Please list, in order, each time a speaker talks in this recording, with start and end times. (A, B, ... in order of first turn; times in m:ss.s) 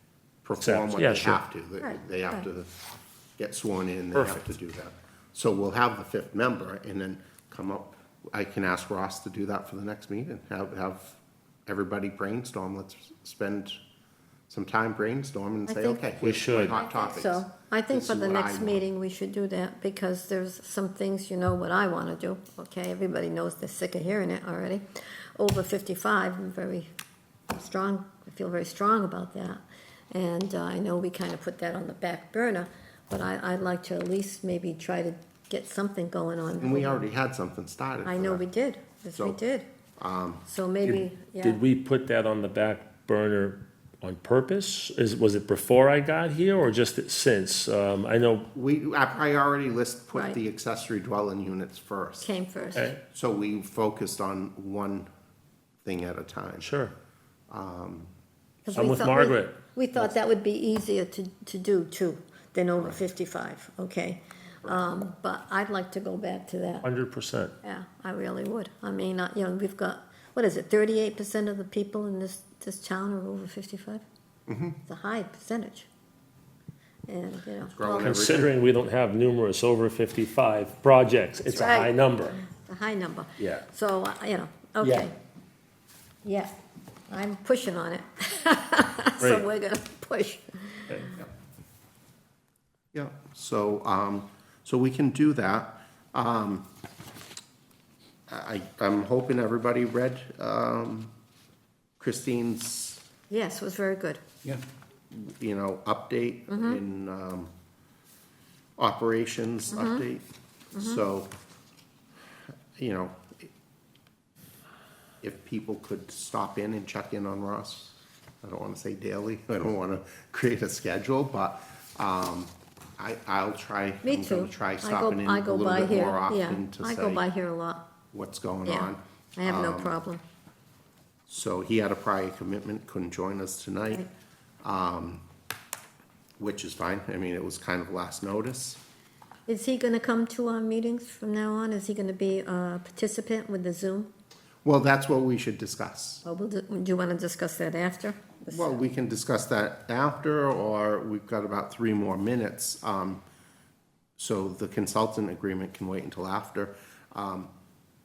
0:00.4-0:13.8 A
0:00.6-0:01.4 B
0:01.8-0:02.4 C
0:14.5-0:18.8 A
0:15.7-0:24.8 C
0:16.2-0:16.8 B
0:25.4-0:26.9 C
0:27.5-0:37.0 C
0:36.6-0:38.4 A
0:38.0-0:39.7 C
0:40.0-0:40.4 A
0:40.5-0:41.6 C
0:41.4-0:48.5 B
0:48.5-0:52.3 A
0:50.1-0:50.4 C
0:52.2-0:52.9 C
0:53.1-0:55.1 A
0:55.8-0:56.7 A
0:56.6-0:56.9 B
0:57.5-0:58.1 A
0:58.7-1:06.9 C
0:58.7-0:59.6 B
1:06.8-1:07.6 B
1:07.6-1:14.0 C
1:14.5-1:14.8 A
1:14.9-1:15.9 C
1:17.1-1:18.2 C
1:17.7-1:18.5 A
1:18.0-1:22.4 B
1:21.5-1:21.9 C
1:22.4-1:25.1 C
1:23.4-1:23.7 B
1:26.2-1:26.5 C
1:27.1-1:31.2 C
1:29.2-1:29.5 B
1:32.9-1:36.7 A
1:38.3-1:41.1 A
1:42.0-1:43.0 A
1:43.3-1:44.2 C
1:45.1-1:47.5 A
1:46.5-1:46.8 C
1:48.8-1:50.2 A
1:49.7-1:50.0 C
1:50.8-1:51.0 C
1:50.8-1:51.3 A
1:52.8-1:53.5 A
1:55.2-2:07.3 A
2:04.0-2:07.8 C
2:08.1-2:10.0 A
2:08.7-2:10.2 C
2:11.3-2:14.1 A
2:14.6-2:15.2 A
2:16.4-2:18.8 A
2:19.5-2:24.1 C
2:24.6-2:26.2 A
2:26.2-2:28.8 C
2:28.5-2:33.2 A
2:34.2-2:37.5 A